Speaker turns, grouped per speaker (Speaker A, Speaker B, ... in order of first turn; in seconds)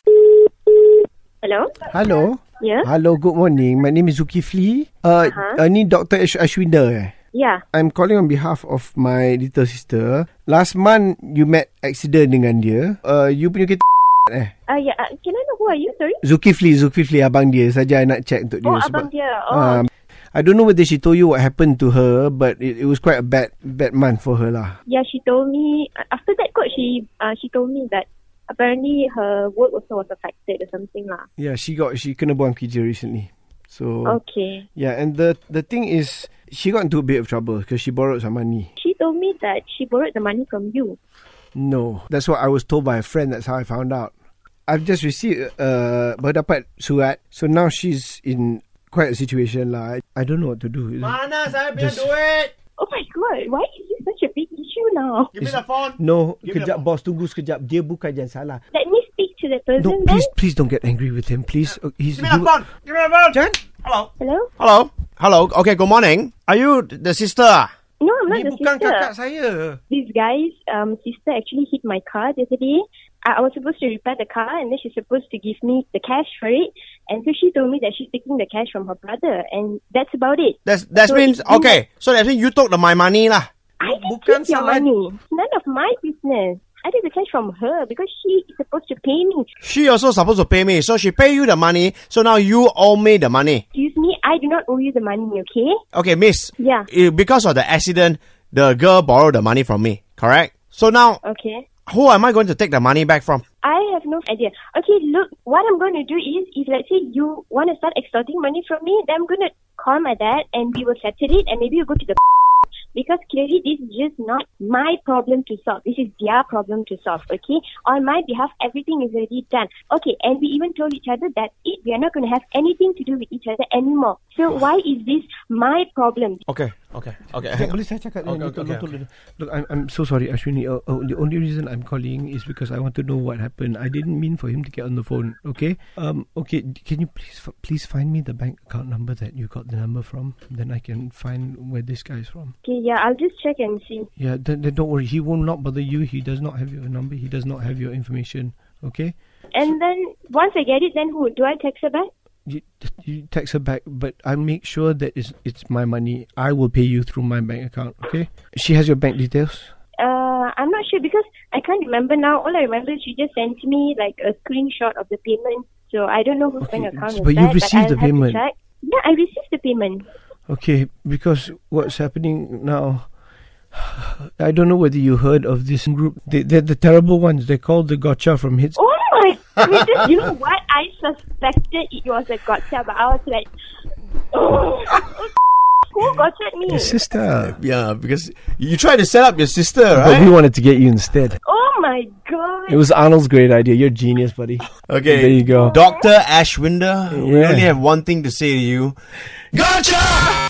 Speaker A: 1.4-1.8, 2.6-2.9, 5.2-5.6, 7.3-7.6, 14.7-16.2, 18.6-19.9, 24.9-31.3, 34.0-34.6, 38.8-41.0, 52.8-55.3, 58.7-60.3, 64.2-64.5, 68.0-69.1, 69.9-81.8, 83.8-89.5, 93.7-95.8, 96.6-96.9, 101.2-101.6, 103.6-112.2, 112.9-126.4, 142.6-144.1, 149.5-152.1, 160.0-170.0, 178.8-183.5, 184.3-185.3, 185.9-187.0, 191.4-192.8, 195.5-196.1
Speaker B: 1.9-7.1, 7.7-14.5, 16.2-24.8, 31.4-34.2, 34.7-38.7, 41.5-44.1, 44.7-51.2, 51.7-52.1, 55.4-58.6, 59.8-62.5, 63.3-63.6, 68.3-69.8, 83.8-84.9, 127.4-142.5, 144.2-149.1, 152.4-159.7, 166.6-168.4, 170.5-173.1, 173.7-178.8, 186.7-187.6, 189.9-191.4, 192.7-195.8, 197.1-197.7
Speaker C: 51.0-52.5, 55.4-56.8, 62.1-67.7, 80.7-83.5, 89.6-93.6, 95.9-101.2, 101.9-103.4, 126.5-128.9, 187.4-190.3, 194.8-199.0